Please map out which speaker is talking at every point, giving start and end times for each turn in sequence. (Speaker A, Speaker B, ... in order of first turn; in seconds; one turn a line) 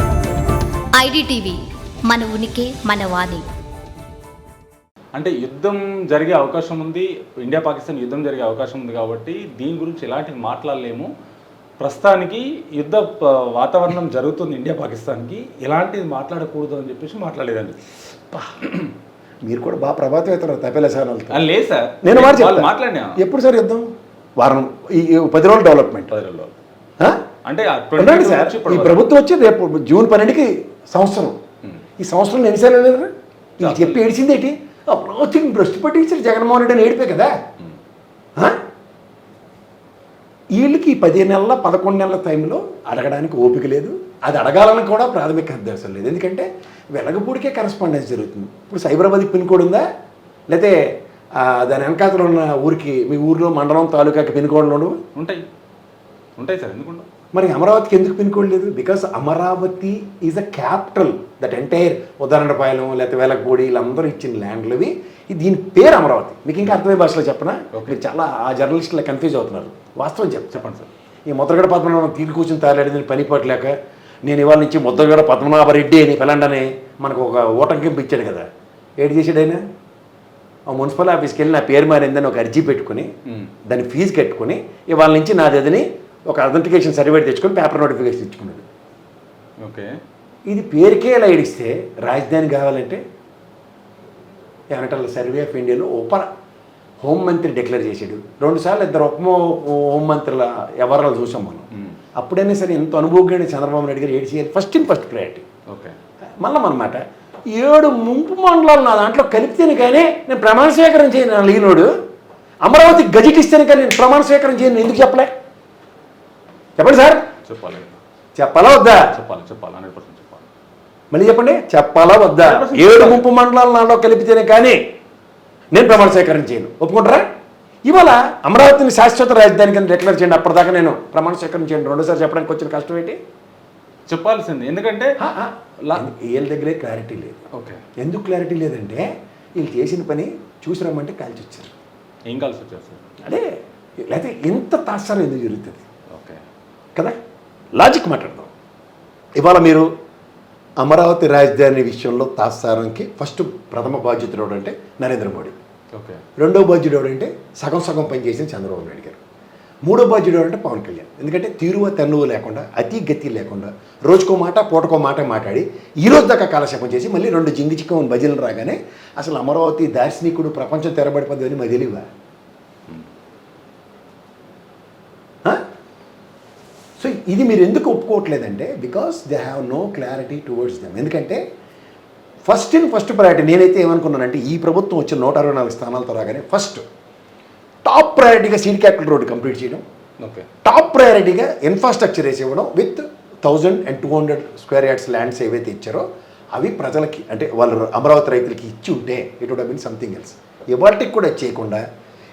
Speaker A: 0.9-3.5
Speaker B: 5.2-11.1
Speaker B: 11.8-17.8
Speaker B: 18.3-18.9
Speaker C: 19.4-21.5
Speaker B: 21.3-23.2
Speaker C: 22.0-23.9
Speaker C: 24.4-26.1
Speaker B: 26.1-26.6
Speaker B: 27.5-29.0
Speaker C: 28.0-31.4
Speaker C: 32.0-37.3
Speaker B: 33.6-34.0
Speaker C: 40.5-49.8
Speaker C: 50.5-50.8
Speaker C: 51.4-55.0
Speaker B: 55.2-55.4
Speaker B: 56.4-57.1
Speaker C: 57.3-70.6
Speaker B: 67.7-68.0
Speaker B: 70.5-70.9
Speaker C: 71.3-78.5
Speaker C: 79.0-79.6
Speaker C: 80.7-83.1
Speaker C: 83.7-88.6
Speaker B: 89.6-89.9
Speaker C: 90.5-93.0
Speaker C: 94.7-96.3
Speaker C: 97.0-105.5
Speaker B: 105.7-106.0
Speaker C: 106.4-111.9
Speaker C: 112.6-115.3
Speaker C: 116.8-117.3
Speaker B: 117.5-118.0
Speaker C: 118.3-119.1
Speaker B: 119.0-120.5
Speaker C: 121.1-124.8
Speaker B: 122.4-123.2
Speaker C: 125.7-127.3
Speaker C: 127.8-133.2
Speaker B: 134.1-135.1
Speaker C: 135.2-137.4
Speaker B: 137.5-137.8
Speaker C: 138.0-141.7
Speaker B: 142.3-143.1
Speaker C: 143.2-143.5
Speaker C: 144.1-145.8
Speaker B: 146.1-146.4
Speaker C: 147.8-148.5
Speaker C: 149.4-149.9
Speaker C: 150.8-155.6
Speaker B: 155.9-156.2
Speaker C: 156.4-159.2
Speaker C: 159.8-172.1
Speaker C: 177.0-181.4
Speaker C: 182.4-186.8
Speaker C: 187.8-189.8
Speaker B: 190.2-190.5
Speaker C: 190.7-201.8